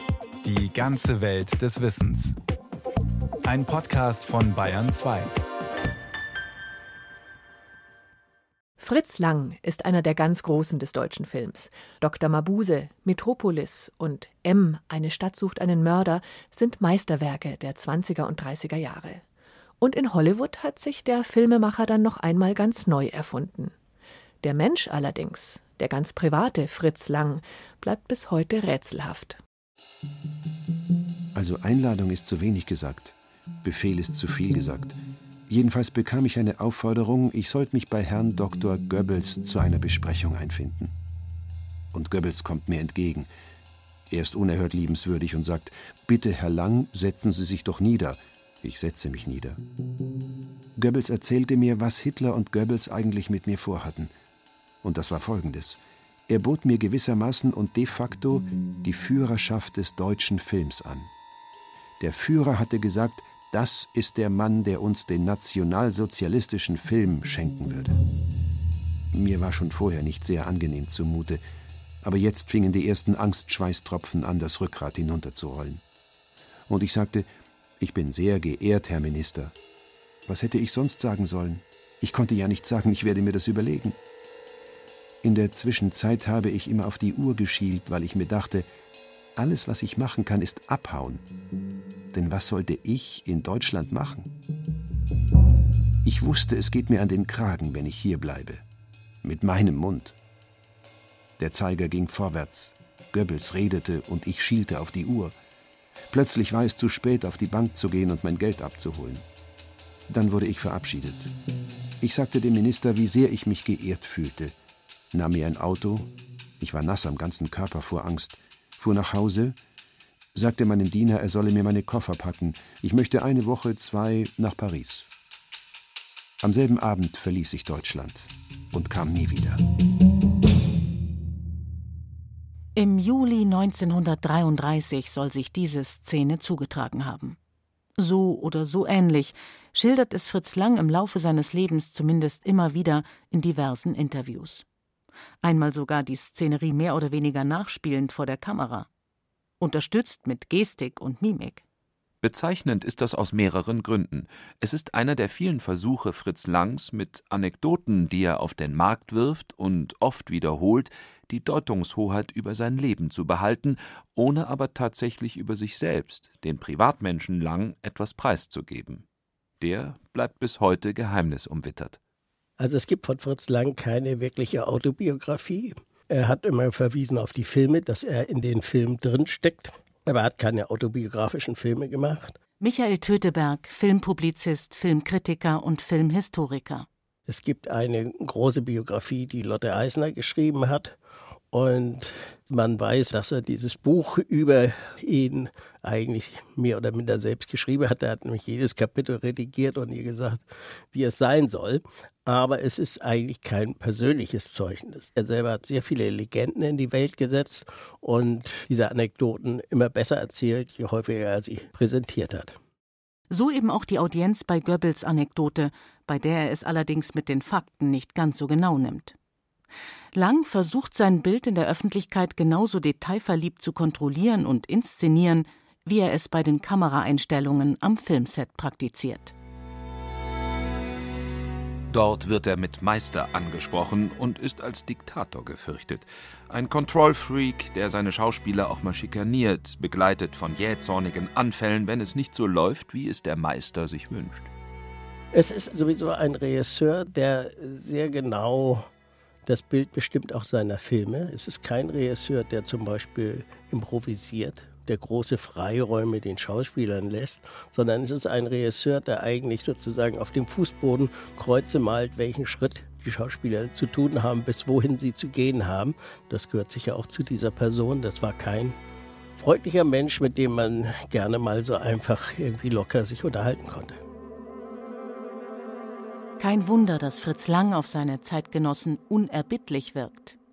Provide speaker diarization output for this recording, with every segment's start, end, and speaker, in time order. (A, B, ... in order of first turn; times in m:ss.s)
0:00.4-0:02.4 A
0:03.4-0:05.3 A
0:08.8-0:19.2 B
0:19.8-0:23.7 B
0:24.4-0:29.4 B
0:31.3-0:35.0 C
0:35.5-0:40.9 C
0:41.9-0:43.3 C
0:44.1-0:49.6 C
0:50.8-0:54.1 C
0:54.8-1:01.1 C
1:02.0-1:08.0 C
1:09.1-1:11.4 C
1:12.0-1:15.8 C
1:16.7-1:17.3 C
1:17.8-1:19.5 C
1:20.2-1:24.0 C
1:25.2-1:28.7 C
1:29.4-1:31.3 C
1:32.1-1:34.3 C
1:36.0-1:38.6 C
1:39.2-1:40.2 C
1:41.4-1:45.4 C
1:46.1-1:49.2 C
1:50.1-1:51.3 C
1:52.0-1:54.6 C
1:55.1-1:59.6 C
2:00.3-2:05.1 C
2:06.4-2:09.6 C
2:12.7-2:17.4 D
2:18.0-2:24.6 D
2:25.4-2:28.9 D
2:29.6-2:31.6 D
2:32.2-2:49.0 E
2:49.6-2:52.0 E
2:52.6-3:02.3 F
3:02.6-3:06.9 D
3:07.3-3:11.0 F
3:11.5-3:32.6 F
3:33.3-3:39.1 D
3:40.1-3:49.3 D
3:51.9-4:04.5 E
4:05.3-4:08.9 F
4:09.4-4:28.8 F
4:29.4-4:34.0 F
4:36.4-4:40.4 D